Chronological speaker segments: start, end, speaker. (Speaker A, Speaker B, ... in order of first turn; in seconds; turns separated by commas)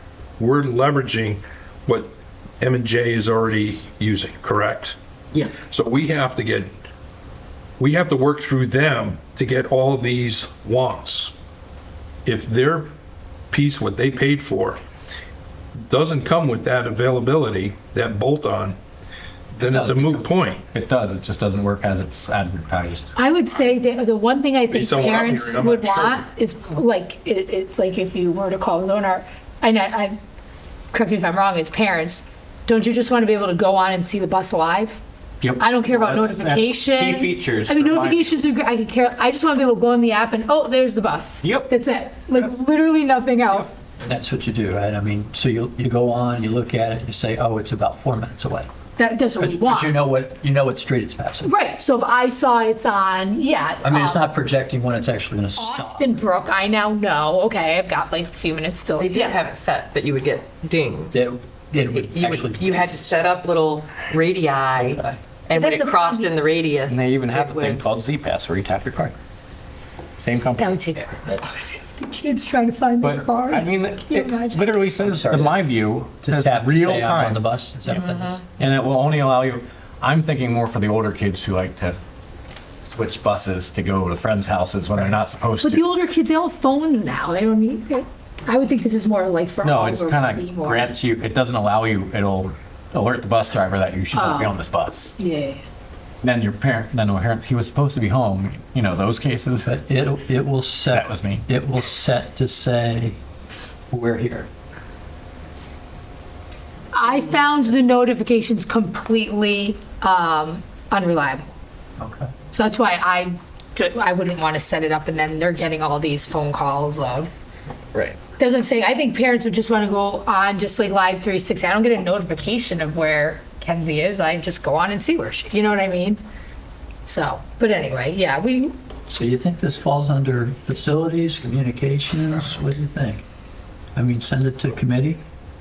Speaker A: 0.4-6.7, Speaker A: 7.8-11.3, Speaker A: 12.2-12.9, Speaker A: 13.5-14.8, Speaker A: 15.8-18.8, Speaker B: 19.6-23.1, Speaker A: 19.6-20.6, Speaker C: 23.1-30.2, Speaker A: 24.7-26.3, Speaker C: 30.9-35.0, Speaker B: 35.4-38.3, Speaker C: 35.6-43.8, Speaker B: 41.4-41.7, Speaker B: 42.3-42.5, Speaker D: 44.0-48.7, Speaker C: 49.0-50.0, Speaker D: 49.4-51.5, Speaker C: 51.4-54.3, Speaker D: 53.8-56.1, Speaker C: 55.6-59.4, Speaker E: 59.0-61.2, Speaker D: 61.1-63.3, Speaker E: 61.9-67.8, Speaker D: 64.8-65.2, Speaker C: 65.5-66.3, Speaker B: 66.9-69.2, Speaker B: 70.2-70.8, Speaker C: 70.6-74.7, Speaker B: 73.0-77.5, Speaker D: 75.0-75.6, Speaker D: 76.2-78.4, Speaker E: 77.9-78.4, Speaker B: 78.6-82.0, Speaker B: 82.8-85.9, Speaker C: 85.6-90.9, Speaker B: 89.6-95.2, Speaker C: 94.1-94.5, Speaker C: 95.2-95.6, Speaker B: 96.2-99.7, Speaker D: 99.7-103.2, Speaker B: 100.9-101.5, Speaker D: 103.9-104.5, Speaker C: 106.9-111.5, Speaker D: 112.0-112.3, Speaker C: 112.5-117.3, Speaker B: 117.9-118.2, Speaker C: 118.4-126.2, Speaker C: 127.0-128.8, Speaker D: 129.1-133.2, Speaker D: 133.9-135.2